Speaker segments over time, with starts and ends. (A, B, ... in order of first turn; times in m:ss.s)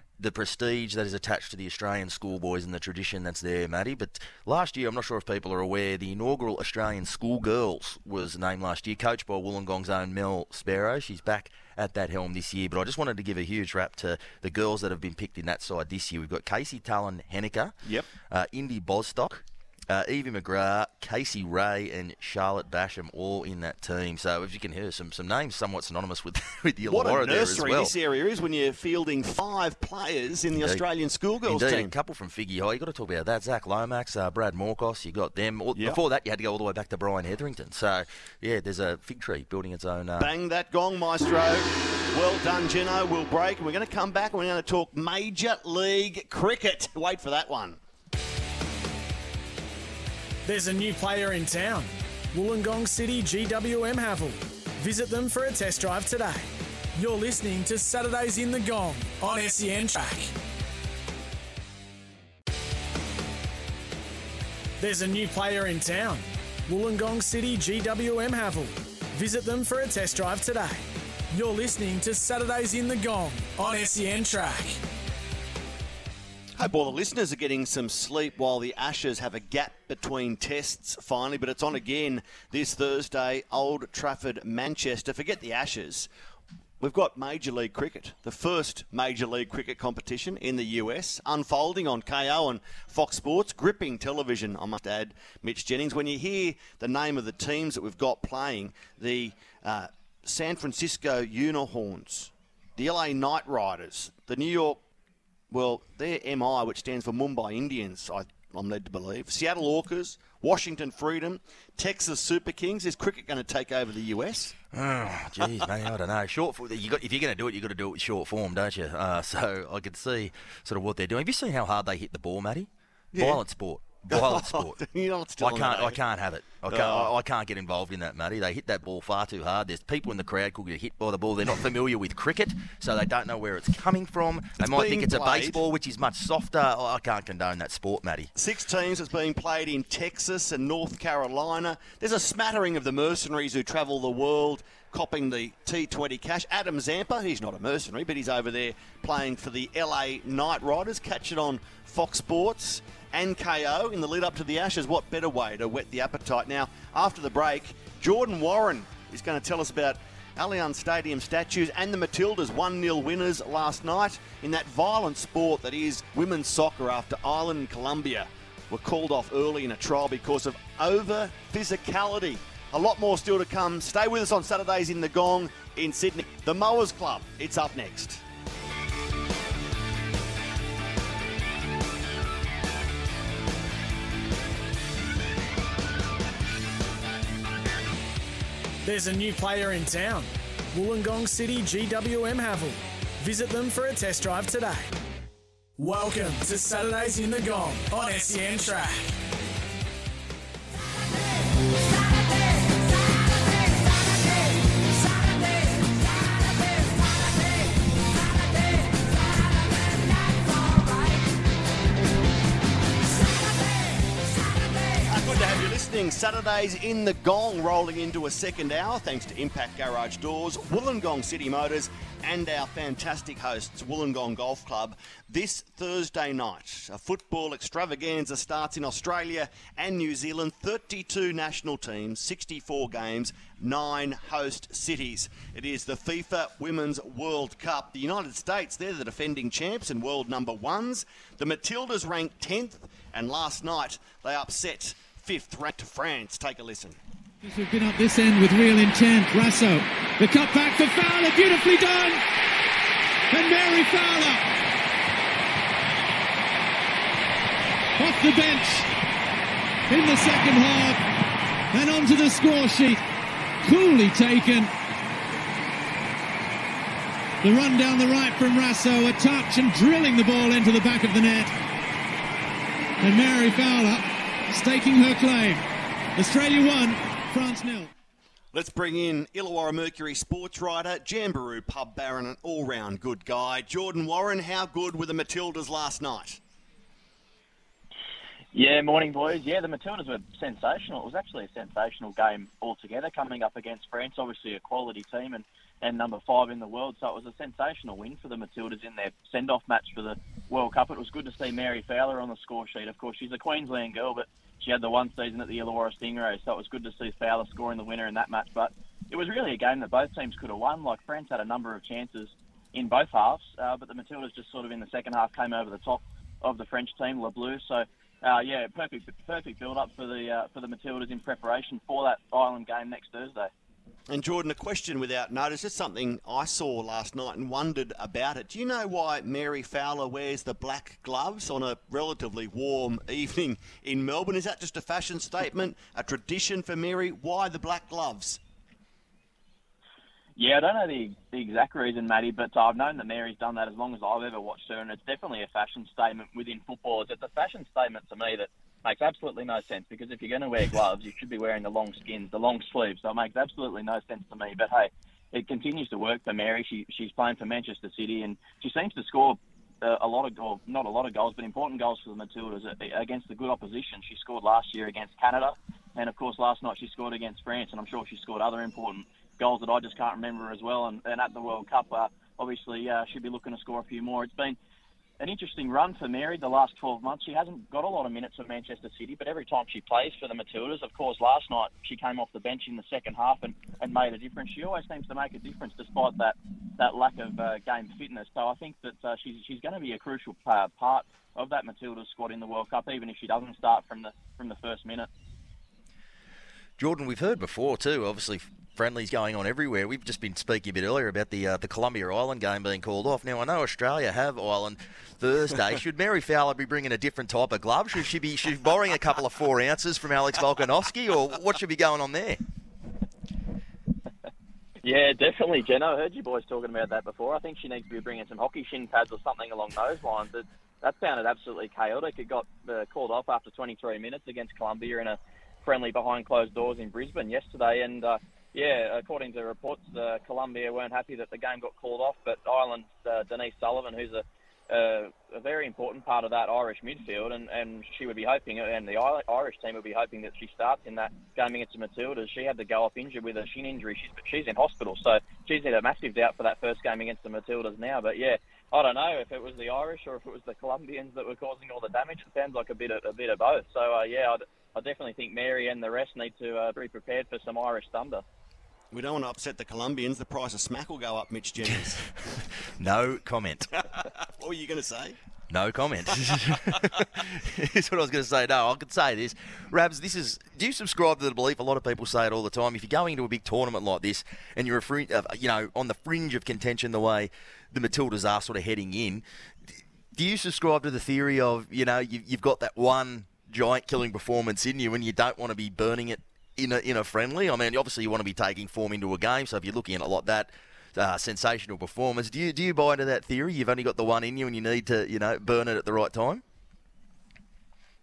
0:00.2-0:27.9 A
0:26.9-0:31.9 B
0:30.6-0:30.8 A
0:31.4-0:40.3 A
0:40.2-0:47.8 B
0:50.5-1:00.3 C
1:04.8-1:14.8 C
1:16.6-1:26.1 B
1:26.8-1:44.8 B
1:45.5-1:54.6 B
1:54.7-2:04.8 A
2:03.1-2:03.4 B
2:04.1-2:06.0 B
2:05.4-2:18.3 A
2:06.7-2:07.1 B
2:14.6-2:15.6 B
2:18.4-2:58.2 B
3:08.8-3:14.9 C
3:15.8-3:19.2 C
3:35.0-4:07.0 B
4:07.5-4:09.6 D
4:10.2-4:12.2 D
4:13.4-4:14.4 D
4:18.1-4:18.7 D
4:20.0-4:20.6 D
4:21.8-4:23.0 D
4:23.7-4:24.5 D
4:27.5-4:31.5 D
4:33.0-4:34.0 D
4:34.6-4:35.6 D
4:36.2-4:37.8 D
4:38.5-4:46.4 B
4:48.5-5:23.5 E
5:24.1-5:38.4 B
5:40.4-6:14.6 E
6:15.2-6:35.1 E
6:36.8-6:52.4 A
6:54.8-7:38.2 E
7:38.9-7:42.0 B
7:41.6-7:43.8 A
7:44.0-7:45.2 B
7:45.5-8:16.4 A